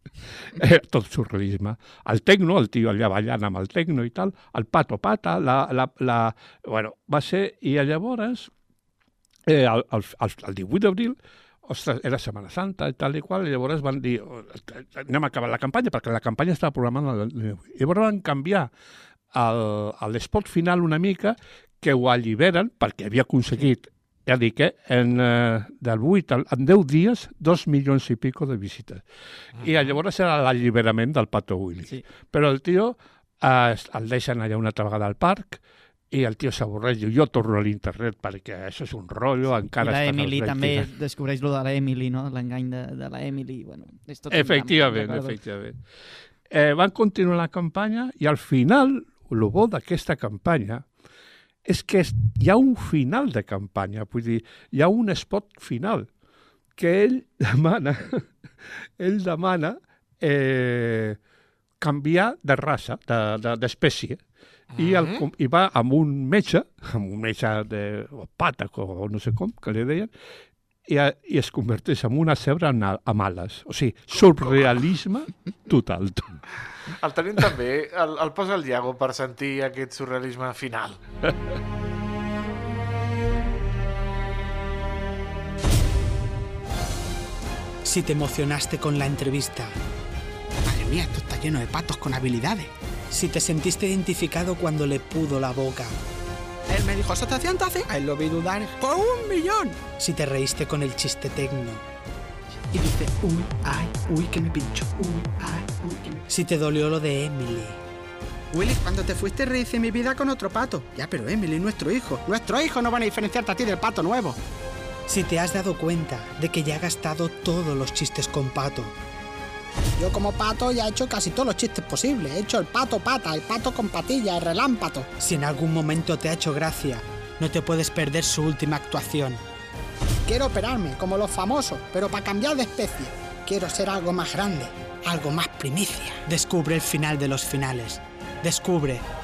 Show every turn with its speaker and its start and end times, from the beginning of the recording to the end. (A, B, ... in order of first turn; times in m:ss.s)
0:00.5-0:08.5 A
0:09.5-0:18.7 A
0:19.3-0:29.0 A
0:29.6-0:40.9 A
0:29.6-0:29.9 B
0:39.8-0:45.4 C
0:44.3-0:45.8 A
0:46.5-0:50.9 A
0:51.6-0:56.1 A
0:56.8-1:01.2 A
1:01.8-1:04.2 A
1:04.8-1:10.1 A
1:04.8-1:05.2 B
1:10.9-1:16.5 A
1:14.4-1:14.7 B
1:17.0-1:21.1 B
1:27.8-1:29.8 D
1:30.6-1:35.9 D
1:36.7-1:41.8 D
1:42.7-1:47.8 D
1:48.5-1:54.4 D
1:55.1-1:58.9 D
2:00.0-2:09.4 D
2:10.3-2:19.0 D